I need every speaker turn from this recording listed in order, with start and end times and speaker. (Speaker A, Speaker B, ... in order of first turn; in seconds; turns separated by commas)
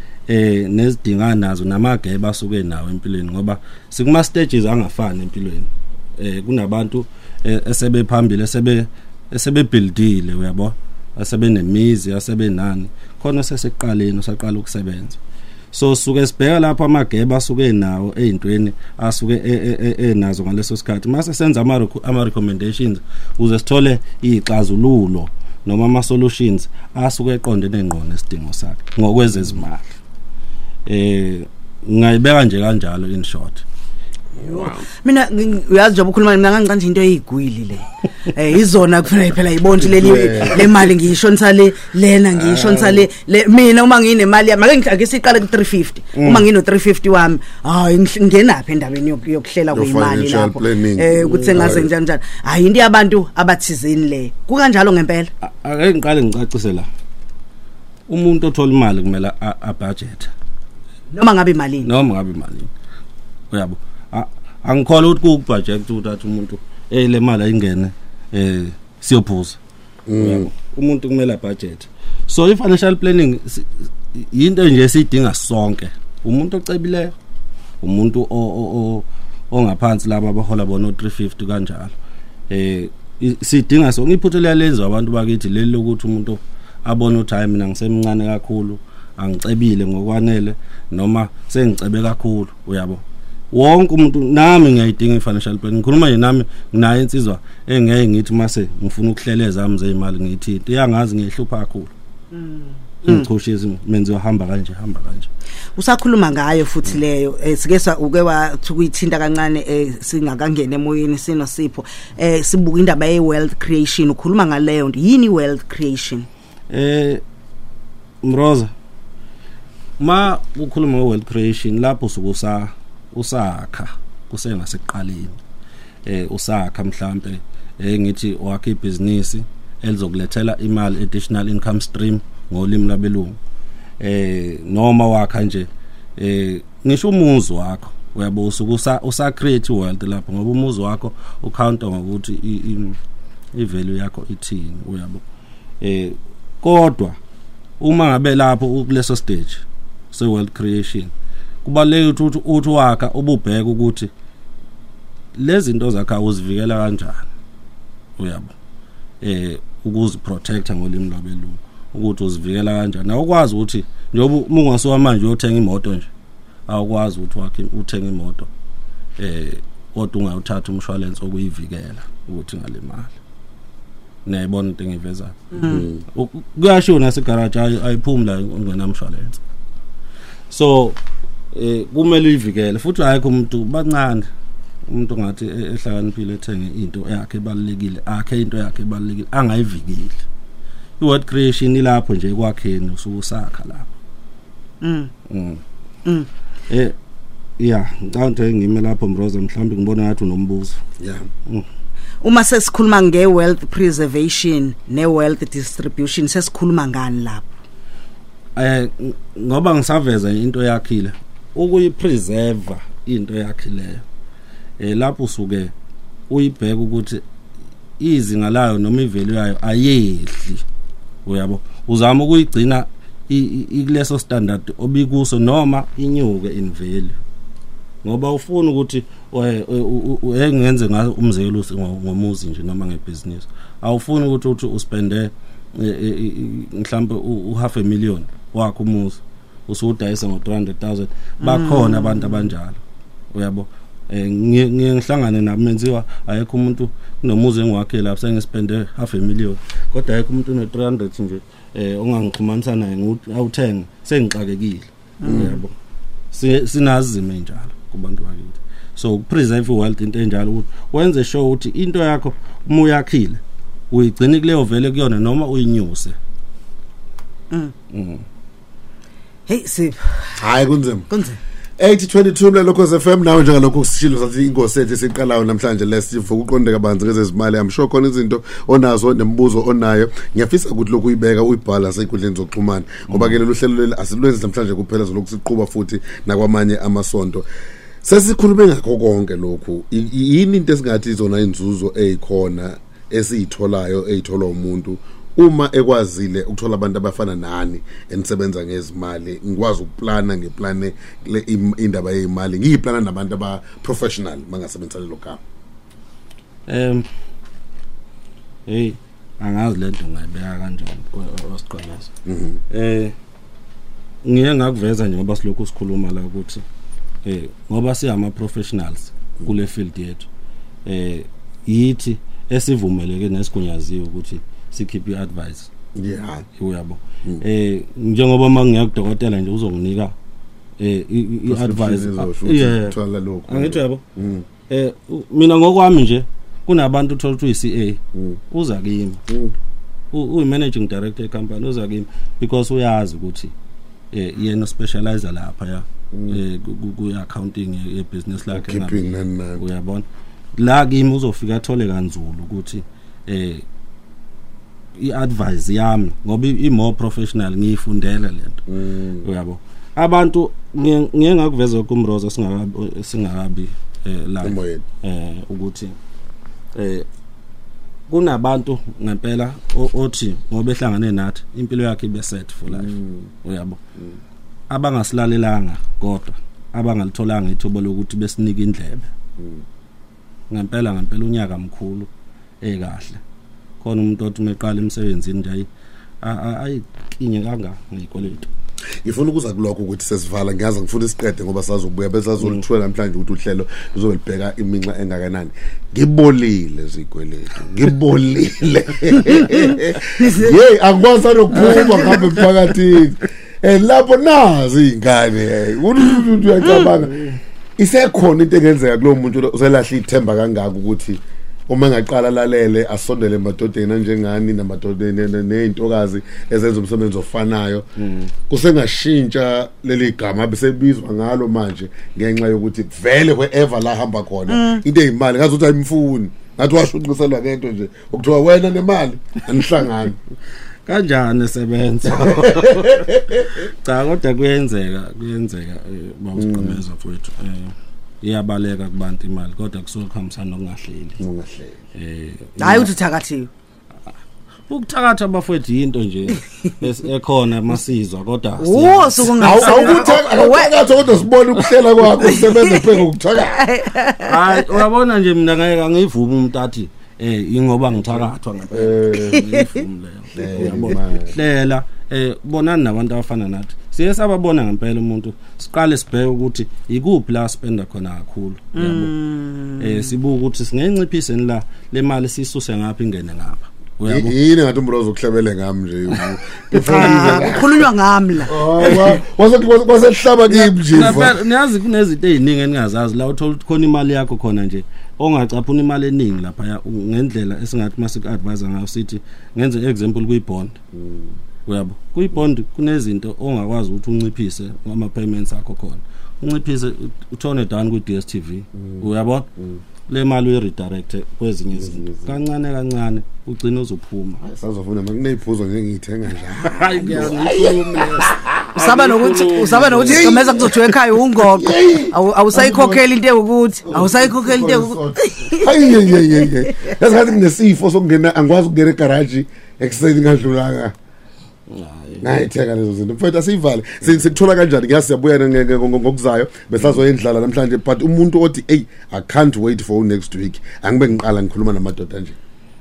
Speaker A: 0.3-15.2, Speaker A: 15.7-29.9, Speaker A: 30.9-33.6, Speaker B: 34.4-55.3, Speaker C: 39.8-40.8, Speaker A: 39.9-40.9, Speaker A: 42.3-43.1, Speaker A: 46.1-46.5, Speaker C: 49.7-51.9, Speaker A: 51.3-51.7, Speaker A: 55.4-56.9, Speaker A: 58.1-60.3, Speaker B: 61.1-61.9, Speaker A: 61.8-62.7, Speaker A: 63.5-69.6, Speaker C: 70.0-70.5, Speaker A: 70.2-77.1, Speaker A: 77.8-81.9, Speaker A: 82.5-101.9, Speaker B: 102.3-103.2, Speaker A: 103.0-105.3, Speaker B: 105.8-116.3, Speaker A: 116.7-117.2, Speaker A: 118.2-118.7, Speaker A: 120.0-125.4, Speaker A: 126.0-133.4, Speaker A: 134.0-143.0, Speaker A: 143.5-145.2, Speaker A: 145.8-147.2, Speaker A: 147.8-151.1, Speaker A: 151.6-154.1, Speaker A: 155.3-157.3, Speaker A: 158.2-158.5, Speaker A: 159.2-166.1, Speaker A: 166.7-168.5, Speaker A: 169.2-173.1, Speaker A: 174.2-175.6, Speaker B: 175.5-175.8, Speaker C: 175.6-176.0, Speaker A: 176.1-179.4, Speaker A: 180.5-181.0, Speaker A: 181.5-184.3, Speaker A: 184.9-190.2, Speaker A: 191.0-193.9, Speaker B: 194.8-195.1, Speaker A: 195.3-195.6, Speaker A: 196.7-196.9, Speaker A: 197.6-200.8, Speaker C: 201.0-201.2, Speaker B: 202.2-207.5, Speaker A: 208.6-214.0, Speaker A: 214.8-215.7, Speaker A: 216.3-217.2, Speaker A: 218.0-220.6, Speaker A: 221.2-227.2, Speaker A: 228.0-242.8, Speaker B: 241.4-242.5, Speaker A: 243.3-255.7, Speaker B: 255.2-255.6, Speaker C: 255.2-255.6, Speaker A: 256.3-266.1, Speaker A: 267.9-268.2, Speaker B: 269.5-270.5, Speaker C: 270.4-271.1, Speaker B: 271.1-271.4, Speaker C: 271.8-287.5, Speaker A: 283.1-283.4, Speaker C: 288.0-305.4, Speaker A: 306.7-307.1, Speaker A: 308.7-312.1, Speaker C: 312.2-312.6, Speaker A: 312.7-313.1, Speaker A: 314.2-316.6, Speaker A: 317.2-320.3, Speaker A: 320.9-325.7, Speaker C: 325.9-326.4, Speaker A: 326.6-330.1, Speaker A: 330.8-334.0, Speaker C: 331.4-334.5, Speaker A: 334.7-339.2, Speaker C: 338.1-338.4, Speaker C: 339.3-339.5, Speaker A: 340.1-343.5, Speaker A: 344.1-353.6, Speaker C: 346.1-346.4, Speaker C: 348.5-349.6, Speaker A: 354.9-358.6, Speaker C: 358.7-359.3, Speaker A: 359.2-365.9, Speaker C: 364.4-364.9, Speaker A: 366.7-367.1, Speaker A: 368.1-372.9, Speaker C: 372.7-373.3, Speaker A: 373.4-373.8, Speaker A: 374.7-379.1, Speaker C: 379.4-379.6, Speaker A: 380.5-382.1, Speaker A: 382.6-383.2, Speaker A: 383.8-385.7, Speaker A: 386.2-388.5, Speaker C: 389.0-407.2, Speaker B: 399.3-400.5, Speaker A: 401.6-402.3, Speaker C: 407.8-417.9, Speaker A: 418.0-418.3, Speaker C: 418.5-430.2, Speaker B: 424.5-424.8, Speaker A: 430.9-441.2, Speaker C: 432.1-433.4, Speaker C: 436.4-436.8, Speaker C: 441.2-441.8, Speaker A: 441.9-442.9, Speaker B: 442.6-443.5, Speaker A: 444.7-450.1, Speaker B: 448.6-450.7, Speaker C: 449.3-453.6, Speaker B: 452.2-454.7, Speaker A: 454.2-469.1, Speaker C: 458.0-459.4, Speaker C: 460.3-461.3, Speaker B: 468.7-470.1, Speaker A: 469.8-474.4, Speaker C: 474.1-477.9, Speaker B: 476.7-479.1, Speaker A: 476.9-477.5, Speaker C: 478.5-481.4, Speaker A: 478.8-479.1, Speaker A: 480.5-490.8, Speaker C: 490.9-491.3, Speaker A: 491.6-499.5, Speaker C: 498.8-499.8, Speaker A: 500.1-504.4, Speaker C: 501.7-502.4, Speaker C: 504.4-508.7, Speaker A: 506.6-510.7, Speaker B: 508.8-516.8, Speaker C: 510.1-513.0, Speaker C: 513.8-520.9, Speaker A: 521.7-522.4, Speaker C: 522.2-532.4, Speaker A: 524.0-524.4